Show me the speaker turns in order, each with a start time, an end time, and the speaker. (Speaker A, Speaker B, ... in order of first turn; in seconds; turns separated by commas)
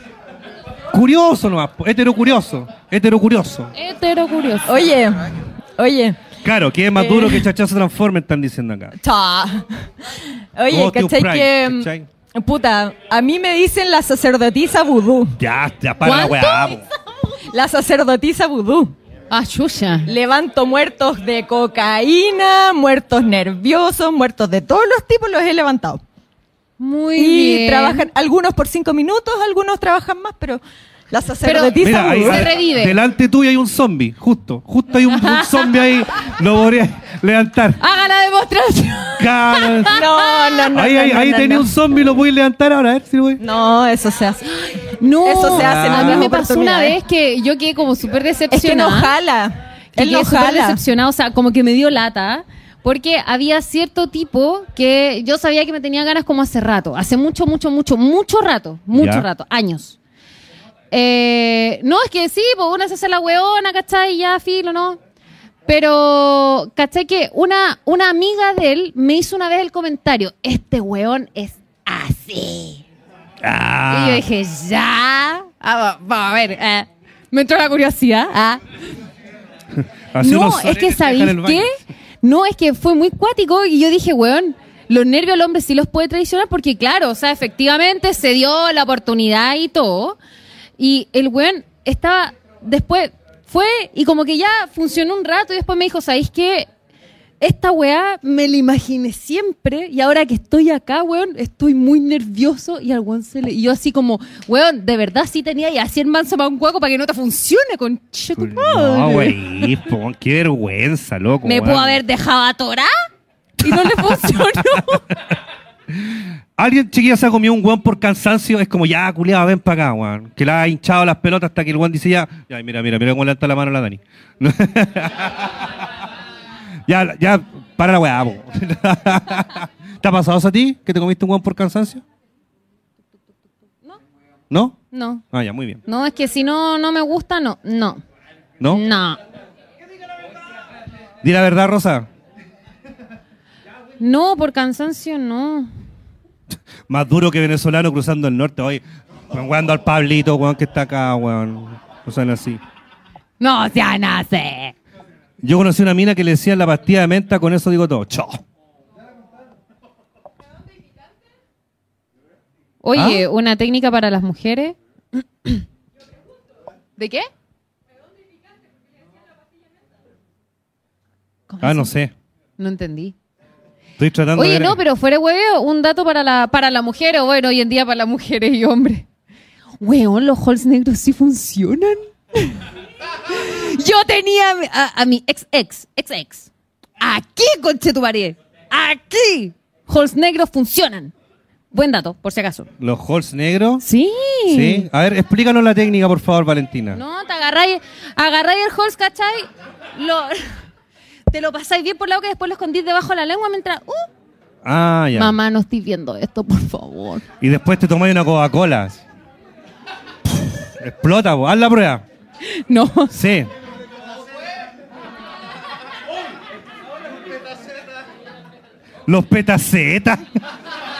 Speaker A: 0.9-3.7, Speaker B: 3.7-4.9, Speaker C: 4.7-6.2, Speaker A: 6.4-8.9, Speaker C: 7.0-7.4, Speaker C: 9.0-9.7, Speaker C: 10.6-15.3, Speaker A: 10.7-12.1, Speaker A: 15.4-16.8, Speaker B: 16.0-16.8, Speaker C: 17.5-18.9, Speaker B: 19.3-20.1, Speaker C: 20.1-26.0, Speaker B: 26.8-28.1, Speaker C: 27.2-32.5, Speaker B: 31.4-33.0, Speaker A: 31.8-37.8, Speaker B: 35.1-35.5, Speaker B: 37.8-40.4, Speaker A: 39.2-40.0, Speaker C: 39.9-41.7, Speaker A: 40.7-43.4, Speaker C: 43.4-44.5, Speaker B: 44.9-49.1, Speaker C: 45.2-47.0, Speaker A: 45.5-46.3, Speaker C: 48.5-50.8, Speaker B: 50.0-60.0, Speaker A: 58.9-59.2, Speaker B: 60.9-65.0, Speaker B: 65.7-72.8, Speaker A: 73.4-74.2, Speaker B: 73.9-78.6, Speaker A: 79.8-81.7, Speaker B: 80.2-90.2, Speaker B: 90.8-96.7, Speaker B: 97.4-109.7, Speaker A: 108.3-112.0, Speaker B: 111.4-112.9, Speaker B: 113.6-115.0, Speaker A: 113.6-114.3, Speaker A: 114.9-115.3, Speaker A: 115.9-125.7, Speaker A: 126.9-132.0, Speaker A: 134.5-134.8, Speaker B: 134.9-135.2, Speaker A: 135.3-135.8, Speaker B: 135.8-138.0, Speaker B: 138.7-139.2, Speaker A: 141.2-142.1, Speaker B: 144.0-145.7, Speaker A: 146.9-152.6, Speaker B: 153.4-154.7, Speaker A: 155.4-158.4, Speaker B: 162.8-165.6, Speaker A: 162.9-163.2, Speaker B: 167.0-167.3, Speaker B: 171.5-171.9, Speaker A: 171.6-172.1, Speaker B: 172.6-173.1, Speaker A: 174.0-174.8, Speaker B: 174.3-179.1, Speaker B: 179.8-182.6, Speaker B: 183.3-191.1, Speaker B: 191.7-192.7, Speaker A: 192.8-193.8, Speaker B: 193.8-194.9, Speaker A: 194.5-197.0, Speaker B: 196.9-200.6, Speaker B: 201.3-204.1, Speaker A: 204.6-205.4, Speaker B: 205.2-207.2, Speaker A: 207.4-209.0, Speaker A: 210.2-212.0, Speaker B: 212.5-213.1, Speaker A: 213.1-213.5, Speaker A: 219.1-220.2